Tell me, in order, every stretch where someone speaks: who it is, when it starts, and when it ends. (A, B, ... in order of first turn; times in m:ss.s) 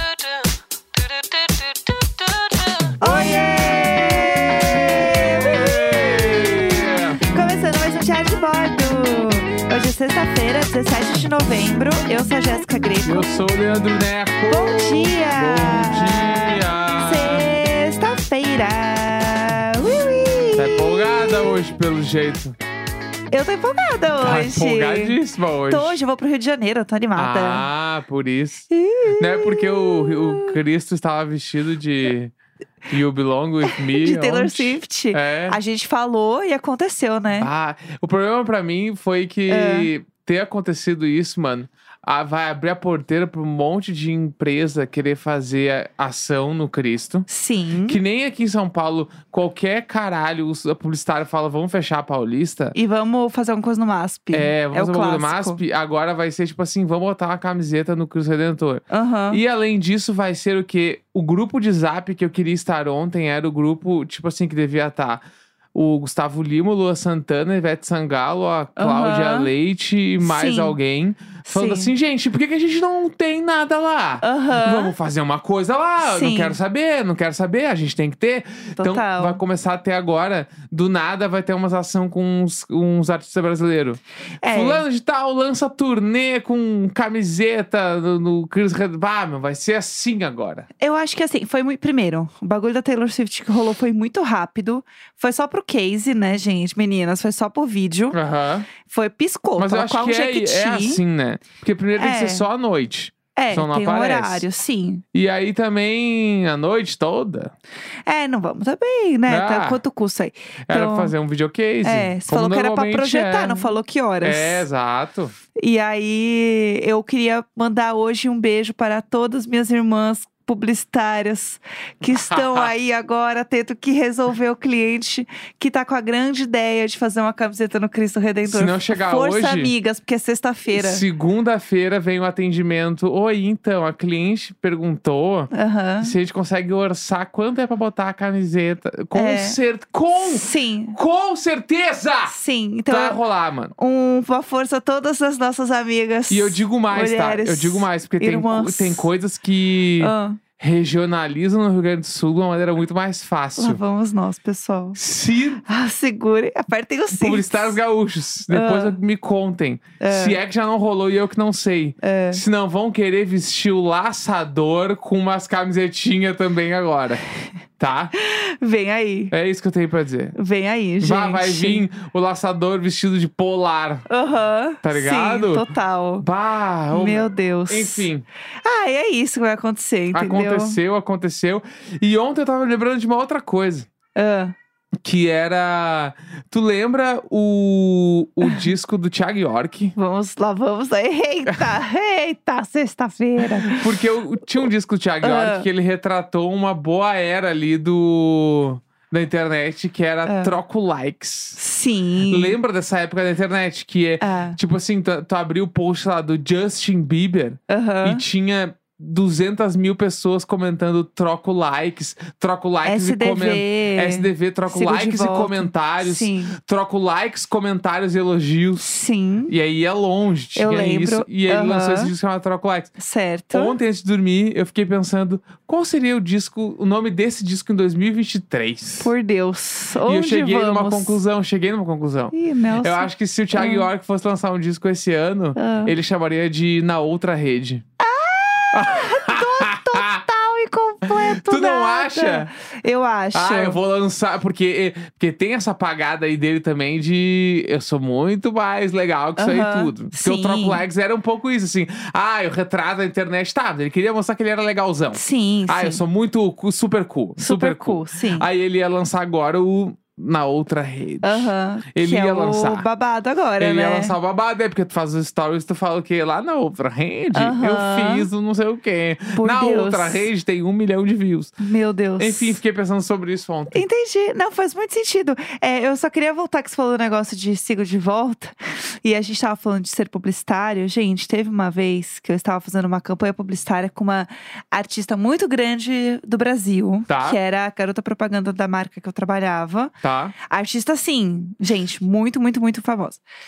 0:03.0-0:07.2 A
0:03.0-0:13.3 B
0:13.0-0:17.5 A
0:14.5-0:21.6 B
0:20.6-0:22.6 A
0:23.3-0:27.7 B
0:24.2-0:26.0 A
0:27.1-0:28.7 A
0:28.7-0:30.6 B
0:29.2-0:32.3 A
0:32.9-0:35.6 A
0:33.6-0:37.5 B
0:37.4-0:47.2 A
0:39.5-0:39.9 B
0:47.3-0:48.0 B
0:47.8-0:52.7 A
0:52.7-0:55.6 B
0:54.3-1:05.2 A
0:58.9-0:59.4 B
1:05.7-1:30.7 A
1:08.8-1:09.5 B
1:10.2-1:10.8 B
1:11.4-1:11.9 B
1:14.2-1:14.9 B
1:16.0-1:16.6 B
1:18.8-1:19.4 B
1:24.4-1:24.8 B
1:30.8-1:38.2 B
1:38.1-1:38.7 A
1:38.8-1:41.0 B
1:39.6-1:44.4 A
1:42.0-1:42.4 B
1:43.3-1:45.0 B
1:45.1-1:47.5 A
1:48.0-1:51.1 B
1:49.3-1:49.8 A
1:50.7-1:55.3 A
1:51.8-1:54.6 B
1:55.6-2:11.0 B
2:02.0-2:02.7 A
2:08.4-2:09.7 A
2:10.7-2:15.5 A
2:15.5-2:16.1 B
2:16.0-2:22.3 A
2:19.1-2:19.6 B
2:20.1-2:21.0 B
2:22.3-2:23.2 B
2:22.9-2:23.7 A
2:23.8-2:29.1 B
2:26.3-2:33.8 A
2:30.0-2:30.4 B
2:33.6-2:35.0 B
2:35.0-2:35.6 A
2:35.6-2:37.8 B
2:37.1-2:47.2 A
2:38.5-2:39.0 B
2:40.0-2:40.4 B
2:42.0-2:42.4 B
2:47.8-2:48.1 A
2:48.1-2:49.3 B
2:49.3-2:50.4 A
2:50.3-2:51.8 B
2:51.0-2:54.0 A
2:54.1-2:56.2 B
2:54.8-2:55.6 A
2:56.2-2:58.2 A
2:56.9-2:58.1 B
2:58.6-3:00.8 B
3:00.1-3:03.9 A
3:04.1-3:04.5 B
3:05.0-3:09.9 A
3:08.4-3:08.7 B
3:10.0-3:13.9 B
3:11.5-3:11.7 A
3:13.4-3:21.6 A
3:15.2-3:15.7 B
3:20.2-3:20.6 B
3:21.6-3:22.6 B
3:22.2-3:38.9 A
3:24.2-3:24.6 B
3:27.7-3:28.2 B
3:32.8-3:36.6 B
3:38.8-3:39.5 B
3:39.5-3:42.9 A
3:40.5-3:42.1 B
3:43.0-3:43.8 B
3:43.5-3:49.1 A
3:49.0-3:51.2 B
3:50.0-3:57.8 A
3:52.3-3:53.9 B
3:55.6-3:55.9 B
3:58.0-4:03.8 B
3:58.7-4:00.2 A
4:01.0-4:02.5 A
4:03.3-4:22.9 A
4:09.4-4:10.8 B
4:15.1-4:16.0 B
4:17.4-4:18.5 B
4:21.2-4:24.2 B
4:23.6-4:31.5 A
4:27.3-4:28.3 B
4:29.4-4:30.3 B
4:31.6-4:32.6 B
4:32.2-4:33.8 A
4:33.7-4:49.9 B
4:47.1-4:47.4 A
4:50.0-4:50.3 A
4:50.4-4:53.2 B